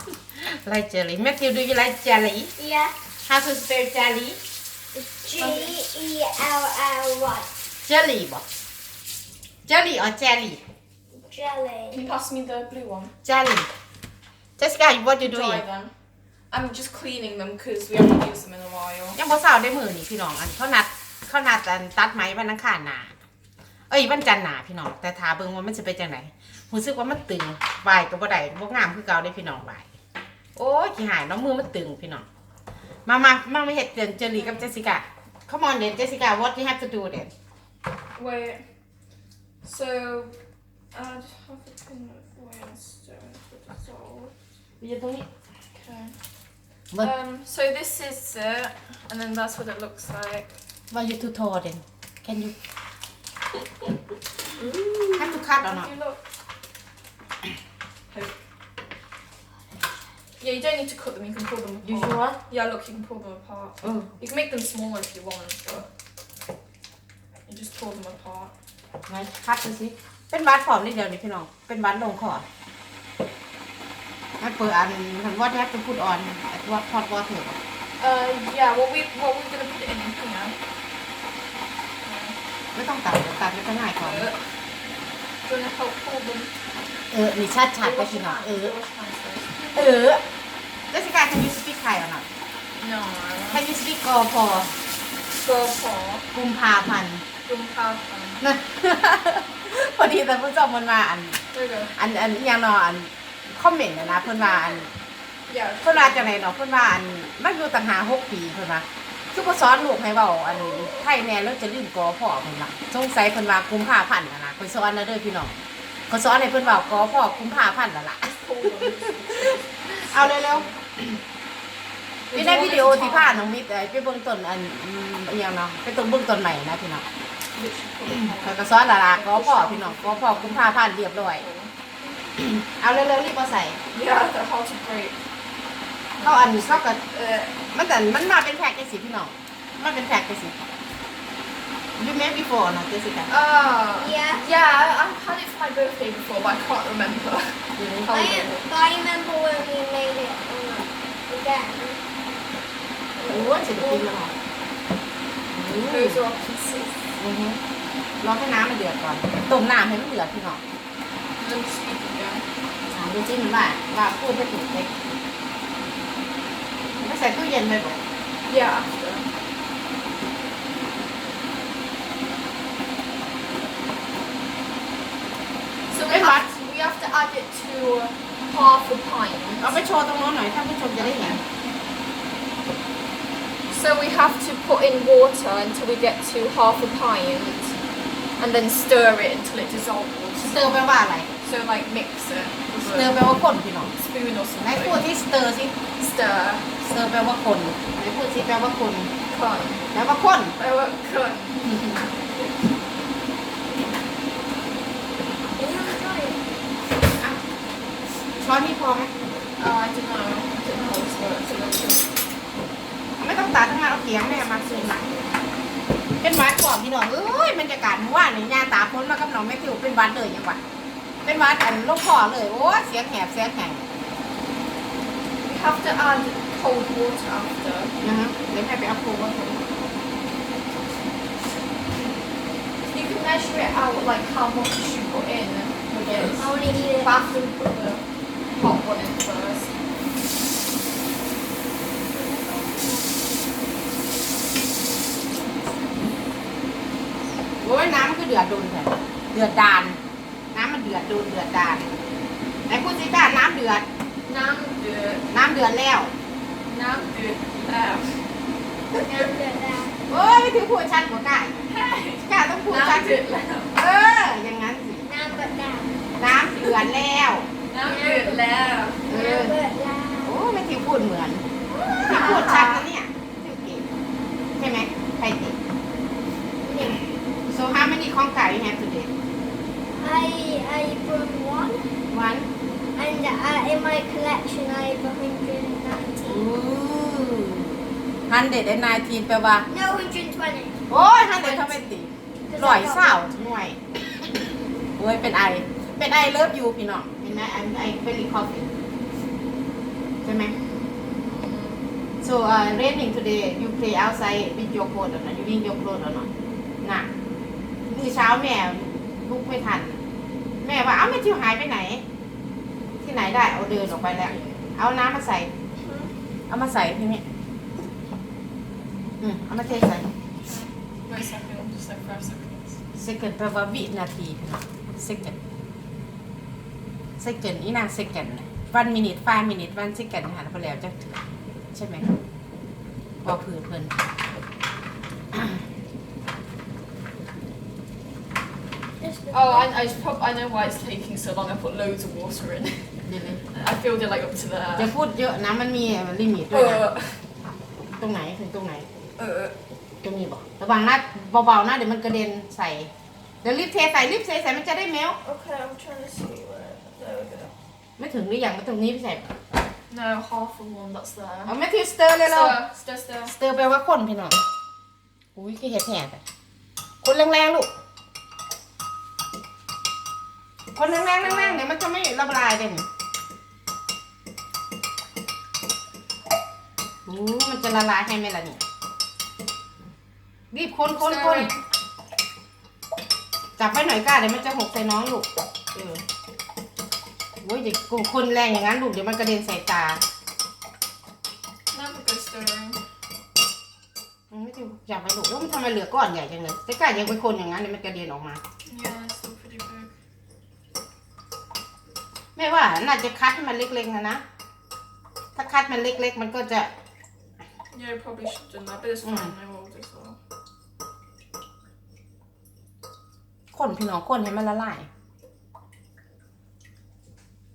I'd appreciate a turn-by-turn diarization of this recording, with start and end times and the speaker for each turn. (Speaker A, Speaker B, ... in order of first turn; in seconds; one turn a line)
Speaker A: 0.3-2.5
Speaker B: 2.6-3.0
Speaker A: 3.2-4.4
Speaker B: 4.9-7.5
Speaker C: 5.3-5.8
Speaker A: 7.8-8.4
Speaker A: 9.7-10.6
Speaker B: 11.1-12.0
Speaker C: 11.9-13.1
Speaker A: 13.2-13.7
Speaker A: 14.6-15.6
Speaker C: 15.2-15.9
Speaker C: 16.5-19.2
Speaker A: 19.1-23.1
Speaker A: 23.9-29.8
Speaker A: 30.6-32.2
Speaker A: 33.0-37.3
Speaker C: 34.3-34.6
Speaker C: 38.1-38.6
Speaker C: 39.6-40.4
Speaker C: 40.9-44.3
Speaker A: 44.8-45.3
Speaker C: 45.7-46.2
Speaker C: 47.0-50.5
Speaker A: 50.9-52.5
Speaker C: 54.6-56.2
Speaker A: 55.0-55.9
Speaker C: 58.1-58.4
Speaker C: 60.4-65.9
Speaker A: 61.8-62.4
Speaker A: 63.8-64.1
Speaker C: 67.5-68.5
Speaker A: 69.1-72.4
Speaker A: 74.4-77.6
Speaker C: 78.0-80.6
Speaker C: 82.0-82.4
Speaker A: 82.7-84.3
Speaker C: 84.0-84.5
Speaker C: 85.4-86.5
Speaker A: 87.1-88.7
Speaker C: 87.8-89.9
Speaker A: 89.7-90.2
Speaker A: 90.9-92.3
Speaker C: 92.8-93.6
Speaker A: 93.5-94.8
Speaker C: 95.4-96.3
Speaker A: 96.3-97.2
Speaker C: 97.4-98.4
Speaker A: 98.4-101.4
Speaker C: 101.5-102.0
Speaker A: 102.0-104.9
Speaker C: 105.5-106.4
Speaker A: 105.8-118.3
Speaker C: 118.2-120.8
Speaker A: 120.1-121.2
Speaker C: 122.3-123.5
Speaker A: 122.3-127.0
Speaker C: 127.5-131.7
Speaker A: 128.4-131.4
Speaker A: 132.4-133.8
Speaker C: 133.9-135.2
Speaker C: 136.2-137.6
Speaker A: 136.2-137.0
Speaker A: 137.7-140.7
Speaker A: 142.0-143.3
Speaker C: 143.3-148.7
Speaker B: 143.9-144.5
Speaker A: 147.8-148.1
Speaker B: 148.1-152.0
Speaker C: 153.2-154.1
Speaker A: 153.3-154.3
Speaker A: 155.5-156.2
Speaker C: 155.8-157.0
Speaker A: 157.2-157.6
Speaker A: 158.2-160.6
Speaker C: 161.4-162.5
Speaker A: 162.9-165.0
Speaker A: 167.0-168.0
Speaker C: 168.4-169.3
Speaker C: 175.9-179.8
Speaker A: 176.1-176.5
Speaker A: 179.6-181.4
Speaker C: 183.7-187.8
Speaker C: 188.4-190.8
Speaker A: 190.4-191.3
Speaker C: 191.4-193.2
Speaker A: 192.8-193.9
Speaker C: 193.9-195.0
Speaker A: 194.6-195.8
Speaker C: 196.0-196.7
Speaker A: 196.8-199.1
Speaker C: 199.3-199.8
Speaker A: 199.9-200.5
Speaker C: 200.6-202.5
Speaker A: 201.7-202.0
Speaker B: 205.5-206.4
Speaker A: 208.4-209.1
Speaker C: 209.6-212.1
Speaker A: 213.2-215.0
Speaker B: 214.4-215.3
Speaker A: 216.2-220.6
Speaker A: 221.2-223.8
Speaker C: 225.4-227.9
Speaker A: 228.0-229.7
Speaker C: 232.8-239.7
Speaker A: 235.9-236.5
Speaker B: 236.3-237.2
Speaker C: 242.1-243.0
Speaker A: 247.6-250.0
Speaker A: 250.5-251.9
Speaker A: 252.7-253.8
Speaker C: 254.2-255.3
Speaker A: 255.3-256.1
Speaker C: 256.7-258.3
Speaker B: 258.9-260.0
Speaker A: 260.1-263.2
Speaker C: 261.7-263.8
Speaker A: 263.7-265.1
Speaker B: 265.0-266.1
Speaker A: 266.2-267.5
Speaker C: 267.7-269.1
Speaker B: 267.8-268.4
Speaker A: 269.1-269.5
Speaker B: 269.1-270.4
Speaker A: 270.2-271.5
Speaker B: 271.7-272.6
Speaker A: 272.0-273.9
Speaker C: 272.1-272.8
Speaker A: 274.6-275.6
Speaker B: 276.6-277.0
Speaker A: 277.5-279.1
Speaker B: 279.9-282.0
Speaker A: 282.1-282.5
Speaker B: 282.9-286.4
Speaker A: 286.2-289.7
Speaker B: 289.7-290.8
Speaker A: 290.9-293.8
Speaker C: 291.2-291.9
Speaker B: 292.4-293.3
Speaker A: 295.0-298.7
Speaker A: 300.2-300.5
Speaker C: 300.9-301.9
Speaker A: 302.2-306.3
Speaker A: 306.8-307.1
Speaker A: 307.9-310.0
Speaker A: 310.6-312.0
Speaker A: 313.0-315.5
Speaker C: 313.5-314.6
Speaker B: 315.8-316.1
Speaker A: 316.5-317.2
Speaker A: 319.2-320.1
Speaker C: 320.4-322.8
Speaker A: 322.9-325.4
Speaker A: 327.2-331.2
Speaker A: 331.7-332.1
Speaker A: 333.2-333.9
Speaker A: 335.3-335.6
Speaker B: 339.0-339.7
Speaker C: 339.3-344.9
Speaker A: 343.0-343.4
Speaker A: 344.8-346.9
Speaker C: 346.5-347.2
Speaker A: 348.0-348.9
Speaker C: 349.2-349.5
Speaker A: 350.0-352.9
Speaker A: 353.4-355.2
Speaker C: 355.2-357.5
Speaker A: 358.0-359.4
Speaker C: 359.9-361.5
Speaker A: 361.5-362.6
Speaker C: 362.2-363.4
Speaker A: 363.2-364.4
Speaker A: 365.4-366.2
Speaker A: 367.0-367.7
Speaker A: 370.7-372.9
Speaker C: 371.0-371.7
Speaker A: 377.1-378.6
Speaker A: 380.5-381.5
Speaker C: 381.0-381.6
Speaker A: 383.6-386.0
Speaker A: 387.4-390.0
Speaker C: 391.7-392.8
Speaker A: 394.3-398.4
Speaker C: 398.6-399.9
Speaker A: 402.4-404.2
Speaker A: 405.4-406.7
Speaker C: 407.7-410.2
Speaker A: 409.0-409.3
Speaker A: 413.5-414.9